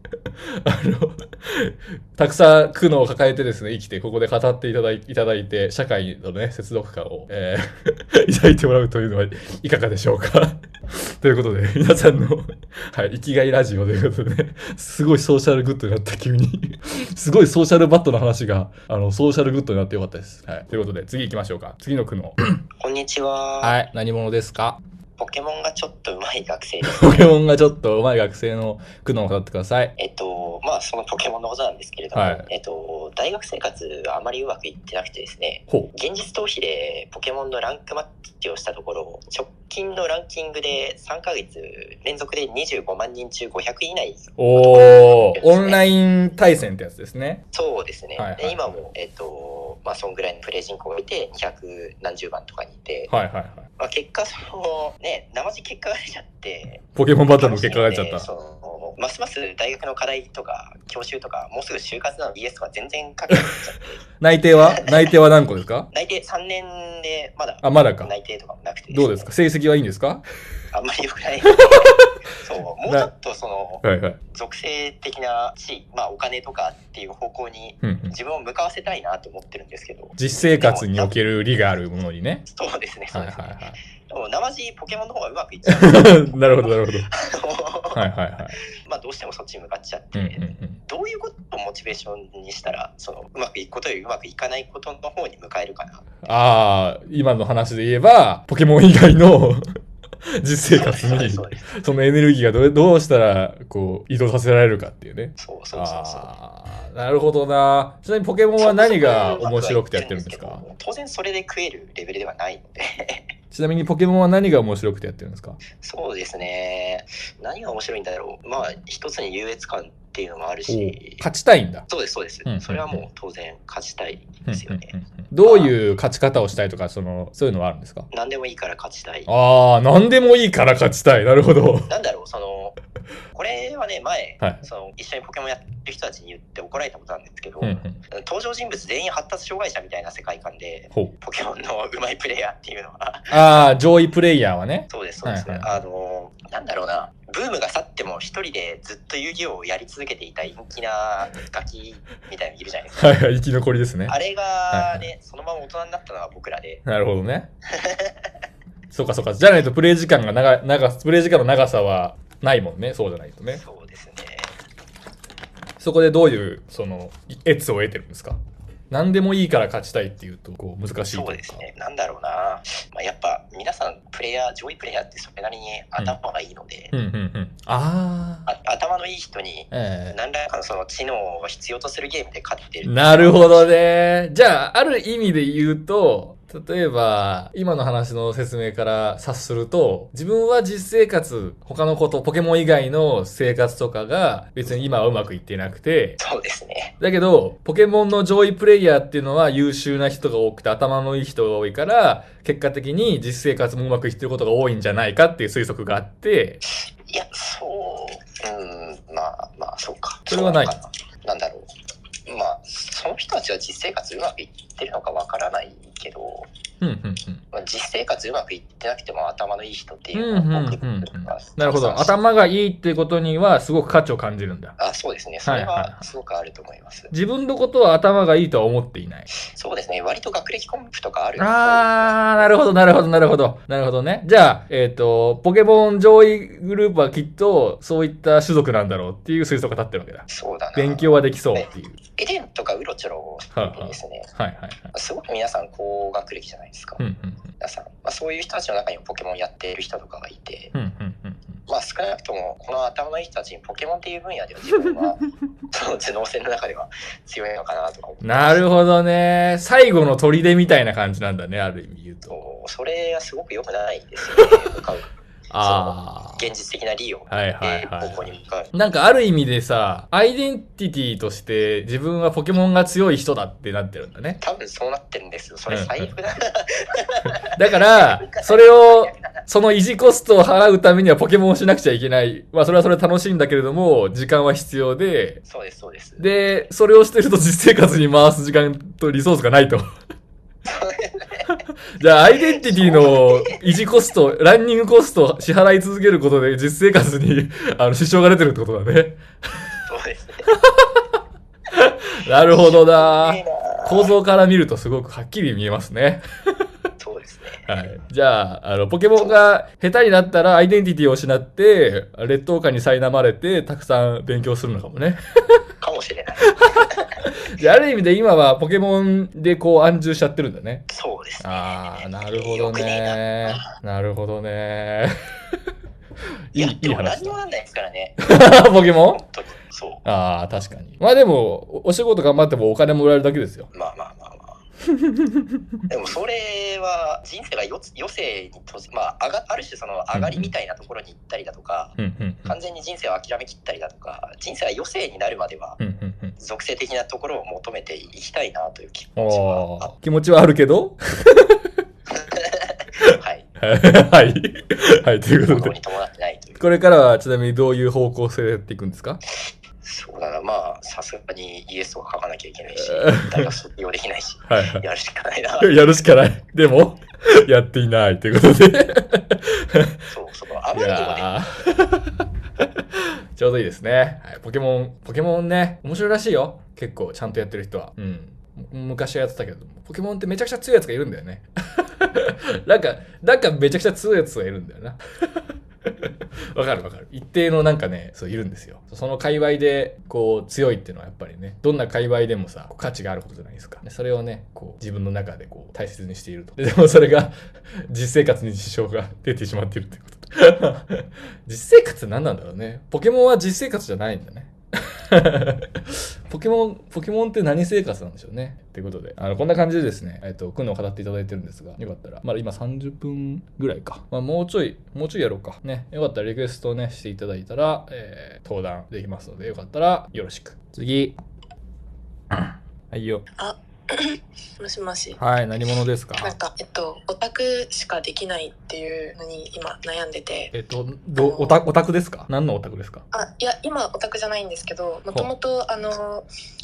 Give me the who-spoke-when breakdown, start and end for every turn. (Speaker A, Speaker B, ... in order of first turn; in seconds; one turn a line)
Speaker A: 0.6-22.6
Speaker B: 22.8-23.7
Speaker A: 23.6-24.8
Speaker B: 25.2-27.2
Speaker A: 26.9-29.9
Speaker B: 30.0-45.8
Speaker A: 32.1-32.5
Speaker A: 44.4-47.4
Speaker B: 47.5-53.1
Speaker A: 48.1-48.8
Speaker A: 53.1-53.7
Speaker B: 53.8-56.8
Speaker A: 56.9-58.3
Speaker B: 57.4-64.0
Speaker A: 64.2-65.9
Speaker B: 65.9-69.3
Speaker A: 67.6-68.1
Speaker A: 68.9-70.2
Speaker B: 70.7-81.1
Speaker A: 71.5-72.0
Speaker A: 72.8-73.1
Speaker A: 73.8-74.2
Speaker A: 77.8-78.1
Speaker A: 80.2-82.4
Speaker B: 82.5-83.5
Speaker A: 83.1-83.8
Speaker B: 84.1-88.0
Speaker A: 85.7-87.1
Speaker A: 87.9-88.6
Speaker B: 88.8-96.1
Speaker A: 90.1-90.8
Speaker A: 96.2-99.6
Speaker A: 100.4-110.6
Speaker B: 100.7-101.7
Speaker B: 105.4-106.3
Speaker B: 108.6-113.2
Speaker A: 113.5-115.6
Speaker B: 115.7-121.2
Speaker A: 120.7-121.9
Speaker B: 121.9-124.9
Speaker A: 122.4-123.0
Speaker A: 124.5-128.1
Speaker B: 125.4-125.7
Speaker B: 128.1-129.3
Speaker A: 129.3-131.9
Speaker B: 131.9-132.7
Speaker B: 133.3-143.4
Speaker A: 137.6-138.0
Speaker A: 143.3-145.8
Speaker B: 144.9-153.1
Speaker A: 152.9-154.1
Speaker B: 154.1-156.8
Speaker A: 154.7-155.1
Speaker A: 156.8-157.5
Speaker B: 157.7-158.3
Speaker A: 158.9-163.6
Speaker B: 163.5-164.5
Speaker A: 165.8-168.4
Speaker A: 168.9-171.6
Speaker B: 171.1-176.9
Speaker A: 176.9-178.5
Speaker B: 178.5-183.7
Speaker A: 179.7-180.2
Speaker A: 182.8-196.2
Speaker B: 196.2-196.9
Speaker A: 197.0-206.6
Speaker B: 206.7-211.7
Speaker A: 210.3-210.7
Speaker B: 212.3-216.5
Speaker A: 216.8-217.4
Speaker B: 217.5-222.1
Speaker A: 220.1-224.7
Speaker B: 224.8-227.1
Speaker A: 225.4-226.1
Speaker A: 227.1-229.3
Speaker B: 229.5-232.7
Speaker A: 231.4-242.0
Speaker B: 240.3-244.3
Speaker A: 243.5-244.9
Speaker B: 244.9-247.0
Speaker A: 247.0-247.4
Speaker B: 247.6-250.7
Speaker A: 250.7-251.6
Speaker B: 251.7-258.6
Speaker A: 258.2-262.4
Speaker B: 262.3-265.1
Speaker A: 265.5-266.4
Speaker B: 265.6-268.7
Speaker A: 267.3-274.4
Speaker B: 274.4-279.4
Speaker A: 275.7-276.1
Speaker A: 277.5-285.4
Speaker B: 285.4-286.6
Speaker A: 286.2-289.9
Speaker B: 290.6-291.5
Speaker A: 292.0-299.2
Speaker B: 292.5-293.6
Speaker B: 299.9-300.4
Speaker A: 300.5-301.0
Speaker A: 301.7-306.2
Speaker B: 302.4-304.1
Speaker B: 307.0-307.7
Speaker A: 307.6-315.2
Speaker B: 315.8-317.2
Speaker A: 316.5-320.9
Speaker B: 320.9-323.7
Speaker A: 321.4-325.2
Speaker A: 326.5-327.4
Speaker B: 326.5-328.3
Speaker A: 328.2-329.2
Speaker B: 329.1-330.0
Speaker A: 330.0-333.7
Speaker B: 333.7-334.6
Speaker A: 335.0-335.3
Speaker B: 335.9-345.8
Speaker A: 340.1-340.5
Speaker A: 342.0-342.5
Speaker A: 345.8-346.3
Speaker B: 346.4-349.9
Speaker A: 349.2-351.6
Speaker B: 352.1-353.4
Speaker A: 353.0-355.7
Speaker B: 355.5-356.7
Speaker A: 356.6-359.2
Speaker B: 359.8-365.7
Speaker A: 362.8-363.5
Speaker A: 364.5-364.9
Speaker A: 365.6-369.9
Speaker B: 370.1-371.3
Speaker A: 370.7-372.1
Speaker A: 373.3-385.0
Speaker A: 386.5-421.1
Speaker A: 422.9-423.2
Speaker C: 423.4-425.2
Speaker A: 425.2-426.3
Speaker C: 426.2-430.5
Speaker A: 430.5-433.0
Speaker C: 431.2-431.6
Speaker C: 433.1-436.3